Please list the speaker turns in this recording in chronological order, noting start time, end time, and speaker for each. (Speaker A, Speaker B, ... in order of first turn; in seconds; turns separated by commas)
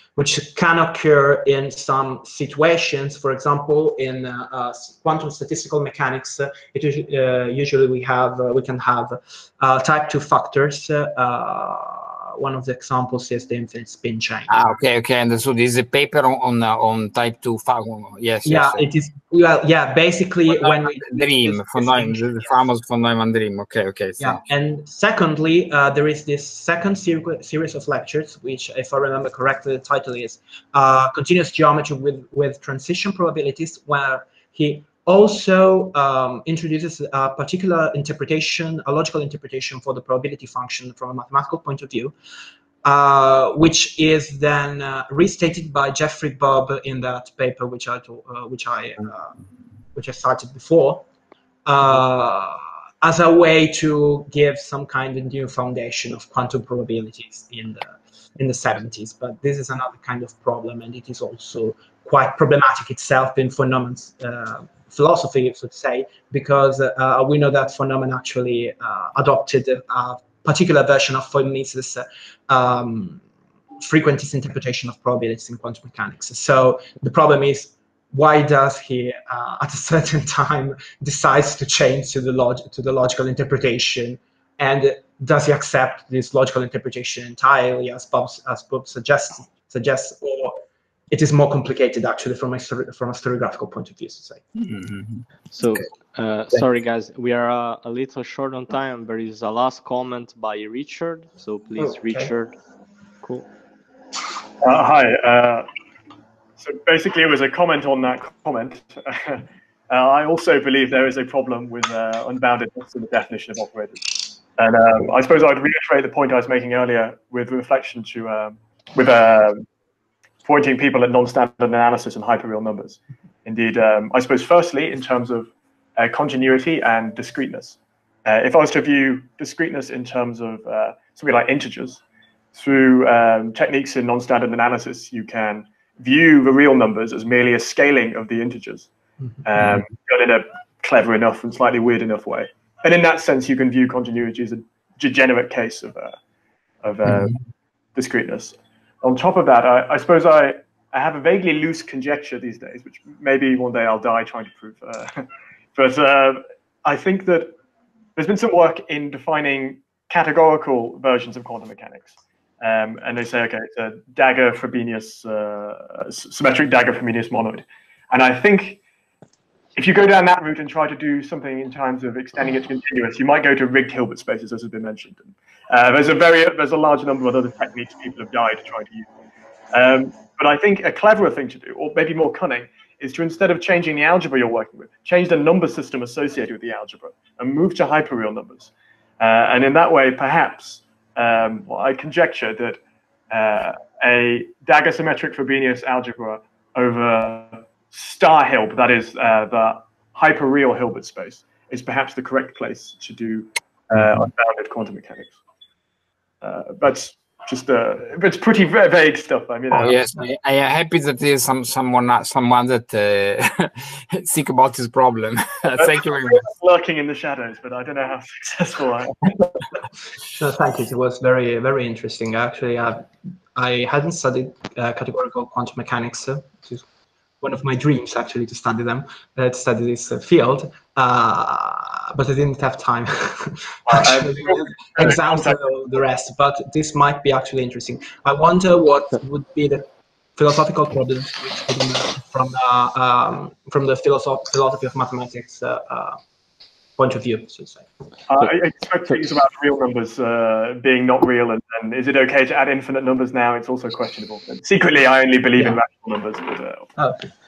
Speaker A: 0.2-14.5, Speaker B: 14.5-18.8, Speaker A: 18.4-22.2, Speaker B: 20.5-24.4, Speaker A: 24.2-42.1, Speaker A: 42.8-49.4, Speaker A: 49.9-51.1, Speaker A: 51.7-73.2, Speaker A: 73.8-90.5, Speaker A: 91.1-94.4, Speaker B: 94.6-95.8, Speaker C: 95.5-102.6, Speaker A: 101.8-102.3, Speaker C: 103.2-103.5, Speaker D: 104.6-105.7, Speaker D: 106.6-119.7, Speaker D: 120.4-132.0, Speaker D: 132.5-138.9, Speaker D: 139.4-146.2, Speaker D: 146.8-147.3, Speaker D: 147.9-157.5, Speaker D: 158.2-168.8, Speaker D: 169.8-179.1, Speaker D: 179.7-192.8, Speaker D: 193.3-205.4, Speaker D: 206.4-210.0, Speaker B: 209.7-216.4, Speaker D: 215.8-219.8, Speaker A: 220.4-223.0, Speaker A: 223.6-226.8, Speaker A: 227.4-239.8, Speaker D: 233.9-235.6, Speaker A: 240.4-246.2, Speaker A: 247.0-247.8, Speaker D: 248.3-257.0